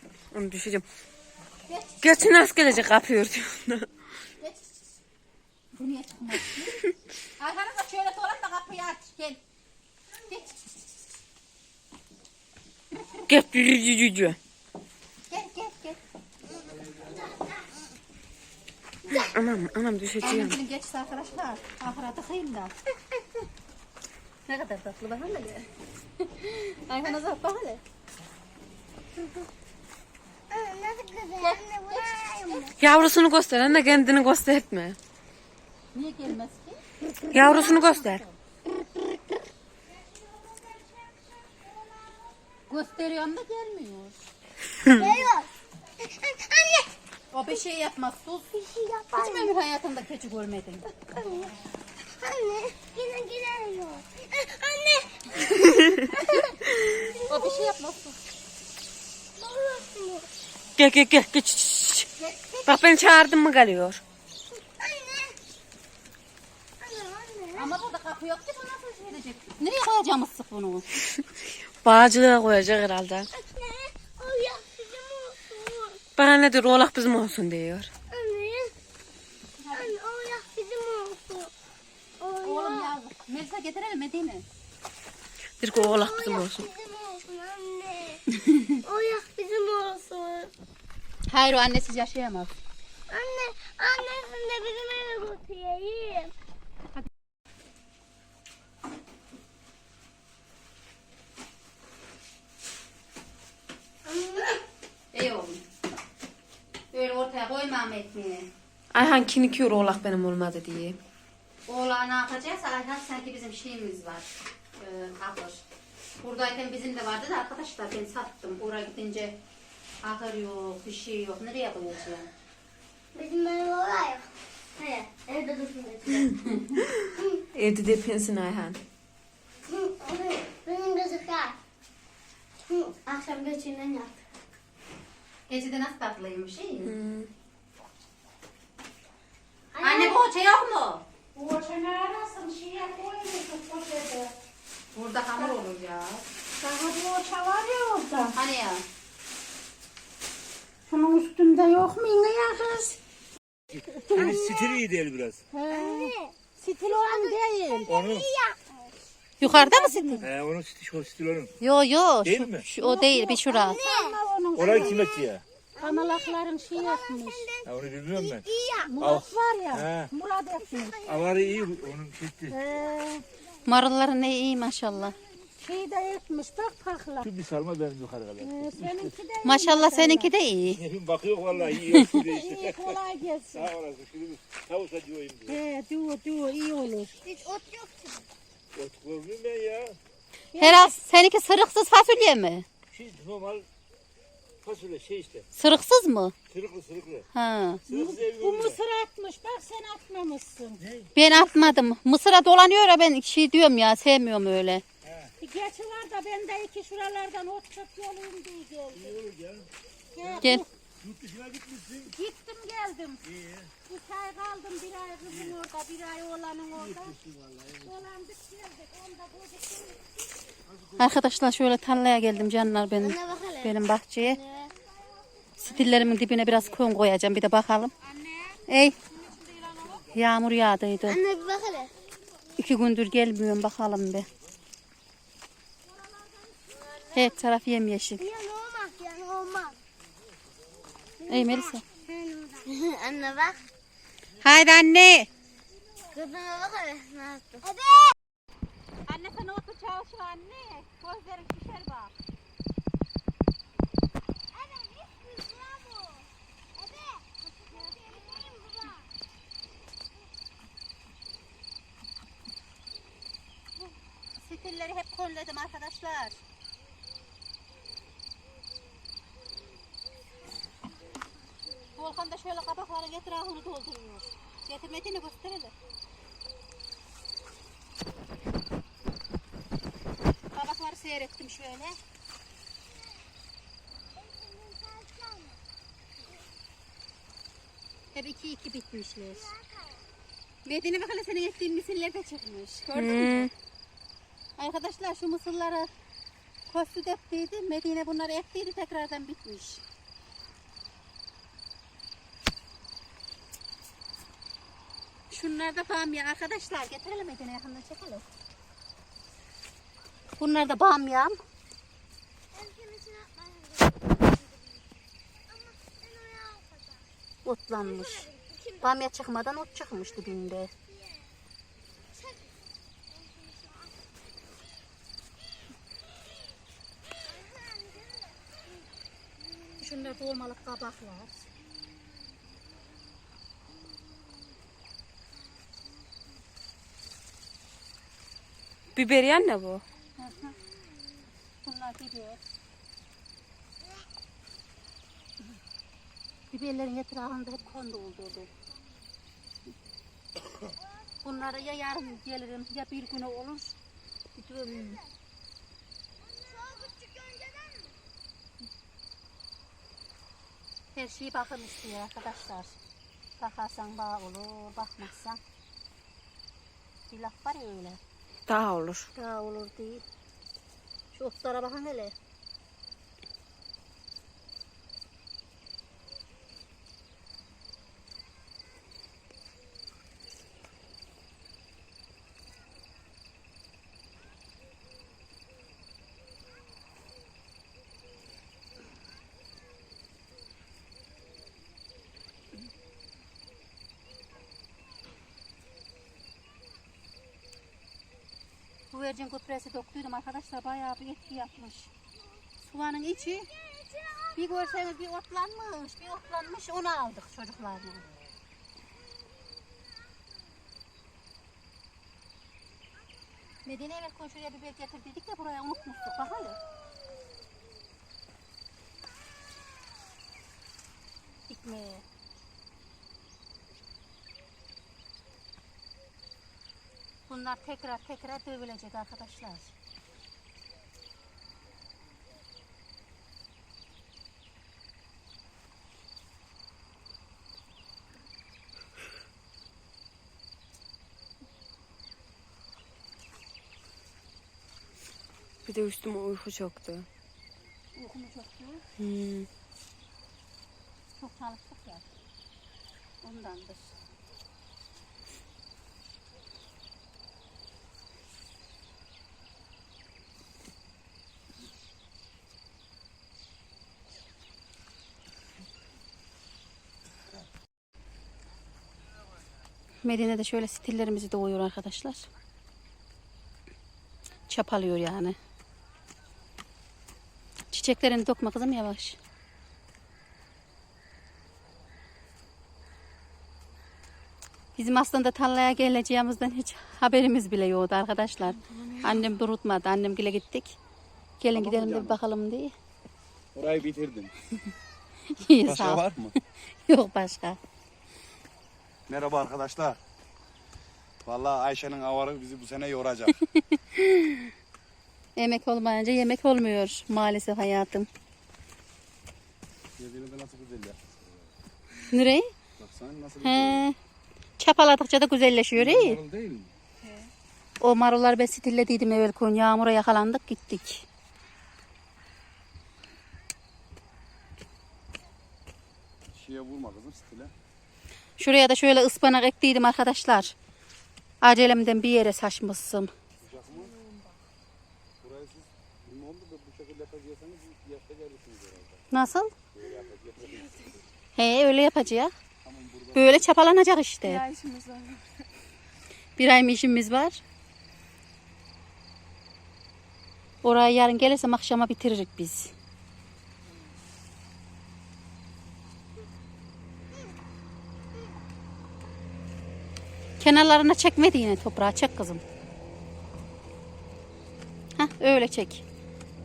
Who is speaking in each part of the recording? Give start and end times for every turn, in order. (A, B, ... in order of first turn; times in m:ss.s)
0:00.3-0:00.8 A
0:01.7-0:02.0 B
0:02.0-0:03.9 A
0:05.7-0:06.8 B
0:07.4-0:09.4 B
0:10.3-0:10.5 B
0:13.3-0:14.4 A
0:15.3-0:16.0 B
0:17.1-0:17.4 C
0:19.3-0:20.6 A
0:20.2-0:22.7 B
0:24.5-0:27.8 B
0:29.2-0:29.4 C
0:30.5-0:32.8 C
0:31.4-0:32.2 B
0:32.8-0:35.0 A
0:35.9-0:36.8 B
0:37.3-0:38.2 A
0:37.4-0:38.4 B
0:42.7-0:44.2 B
0:44.9-0:46.9 C
0:47.3-0:48.5 B
0:48.5-0:49.5 C
0:49.1-0:50.8 B
0:51.1-0:51.5 C
0:52.2-0:57.6 C
0:57.2-0:58.2 B
0:59.4-1:00.3 C
1:00.8-1:02.1 A
1:02.2-1:02.8 C
1:02.6-1:04.0 A
1:04.6-1:05.4 C
1:06.8-1:07.7 C
1:07.5-1:10.8 B
1:08.7-1:09.0 D
1:11.8-1:13.3 A
1:13.3-1:16.0 C
1:16.2-1:17.9 A
1:18.1-1:18.7 C
1:19.6-1:19.9 B
1:19.7-1:21.5 C
1:22.2-1:22.9 C
1:22.4-1:24.4 B
1:25.6-1:26.7 A
1:25.7-1:28.2 C
1:28.4-1:28.8 B
1:28.8-1:30.5 C
1:31.3-1:32.6 B
1:33.1-1:36.3 C
1:44.0-1:44.6 C
1:45.1-1:45.6 B
1:46.9-1:48.5 B
1:48.9-1:51.0 A
1:51.7-1:55.6 B
1:56.2-1:59.4 B
2:00.0-2:02.2 B
2:03.1-2:06.3 C
2:06.4-2:06.8 B
2:07.5-2:08.8 A
2:09.7-2:11.6 C
2:12.6-2:14.2 C
2:15.5-2:16.9 B
2:16.8-2:17.3 A
2:19.7-2:20.2 C
2:19.8-2:21.0 B
2:21.3-2:24.3 D
2:24.9-2:26.2 B
2:26.6-2:28.4 D
2:28.3-2:28.8 B
2:30.9-2:33.0 D
2:33.7-2:35.4 E
2:33.9-2:34.8 D
2:35.5-2:37.9 D
2:35.7-2:36.4 C
2:36.9-2:38.6 C
2:37.9-2:38.3 E
2:39.4-2:40.2 B
2:39.4-2:40.2 D
2:40.2-2:41.5 E
2:41.6-2:43.8 B
2:42.2-2:42.7 E
2:42.8-2:45.2 D
2:43.5-2:44.2 C
2:44.6-2:45.4 E
2:45.8-2:48.9 C
2:45.8-2:47.5 D
2:47.6-2:48.4 E
2:48.9-2:51.0 D
2:49.0-2:50.1 E
2:50.6-2:51.7 C
2:51.0-2:52.6 E
2:52.5-2:53.2 D
2:53.6-2:55.2 B
2:55.6-2:57.3 D
2:57.2-2:59.1 E
2:58.4-3:00.3 D
2:59.4-3:00.8 B
3:00.7-3:03.0 E
3:02.1-3:03.7 D
3:03.5-3:05.6 E
3:05.5-3:07.2 D
3:07.2-3:08.2 C
3:08.7-3:10.0 E
3:10.5-3:10.9 D
3:10.6-3:12.6 B
3:12.9-3:13.6 E
3:14.6-3:15.4 E
3:15.5-3:16.3 B
3:16.5-3:17.2 E
3:17.3-3:17.8 B
3:17.9-3:18.8 E
3:17.9-3:20.8 D
3:20.8-3:21.1 E
3:21.1-3:24.8 B
3:25.0-3:25.3 E
3:25.4-3:29.2 D
3:28.9-3:29.7 E
3:30.1-3:30.7 D
3:30.2-3:32.1 E
3:32.1-3:33.2 D
3:33.2-3:33.7 E
3:33.8-3:37.2 D
3:36.8-3:38.0 E
3:37.8-3:40.0 D
3:40.7-3:41.1 E
3:41.0-3:44.4 B
3:43.0-3:44.7 C
3:45.6-3:47.9 B
3:48.7-3:49.0 B
3:50.1-3:51.2 B
3:51.0-3:51.9 C
3:52.6-3:54.3 B
3:57.1-3:58.2 B
3:58.2-3:59.8 C
4:01.2-4:03.6 C
4:01.3-4:01.8 B
4:04.4-4:05.3 B
4:06.1-4:08.1 C
4:09.1-4:12.1 B
4:14.5-4:19.1 C
4:24.4-4:26.4 B
4:32.0-4:35.7 B
4:40.5-4:42.0 B
4:44.2-4:45.6 C
4:48.1-4:49.5 B
4:49.3-4:50.1 C
4:50.6-4:53.5 B
4:52.9-4:53.5 A
4:54.6-4:55.9 B
4:56.7-4:59.8 B
5:05.3-5:08.2 B
5:10.4-5:11.4 B
5:12.5-5:14.8 C
5:15.5-5:17.0 C
5:17.4-5:18.3 B
5:17.8-5:18.9 C
5:18.8-5:20.7 B
5:20.8-5:21.3 C
5:22.1-5:22.5 C
5:23.1-5:24.0 C
5:27.2-5:28.5 C
5:29.8-5:31.4 B
5:38.9-5:39.8 A
5:40.2-5:40.5 B
5:41.6-5:42.4 B
5:46.5-5:48.5 B
5:50.8-5:51.8 C
5:51.2-5:53.8 B
5:54.4-5:55.0 B
5:56.2-5:57.9 C
6:00.9-6:02.8 B
6:03.4-6:05.4 B
6:07.1-6:08.0 B
6:08.5-6:09.1 A
6:09.1-6:10.0 B
6:11.1-6:12.1 B
6:38.9-6:41.9 B
6:42.6-6:43.5 B
6:43.5-6:44.6 C
6:44.4-6:48.1 B
6:53.6-6:56.6 B
7:01.5-7:02.0 B
7:07.3-7:09.7 B
7:25.6-7:27.1 A
7:27.9-7:28.8 B
7:29.0-7:29.5 A
7:31.2-7:32.1 B
7:33.2-7:34.0 B
7:50.0-7:52.2 B
7:54.5-7:55.4 B
7:57.7-7:59.2 B
8:04.8-8:10.8 B
8:11.4-8:12.7 B
8:11.5-8:12.2 F
8:13.5-8:14.3 F
8:15.4-8:16.1 B
8:15.6-8:16.3 F
8:16.8-8:17.6 B
8:19.1-8:20.0 F
8:21.2-8:23.3 F
8:23.5-8:24.5 B
8:25.4-8:28.1 B
8:30.0-8:31.6 F
8:32.1-8:32.5 B
8:32.8-8:33.9 F
8:33.4-8:34.0 B
8:34.6-8:36.2 B
8:35.7-8:36.7 F
8:37.8-8:41.0 B
8:46.3-8:47.5 F
8:48.4-8:50.5 B
8:51.4-8:53.1 B
8:53.4-8:54.0 F
8:55.2-8:59.0 F
8:59.1-8:59.5 B
8:59.7-9:01.0 F
9:01.4-9:02.3 B
9:02.6-9:03.7 F
9:03.1-9:04.4 B
9:06.4-9:07.4 B
9:10.6-9:12.7 B
9:20.4-9:22.4 B
9:25.0-9:25.8 B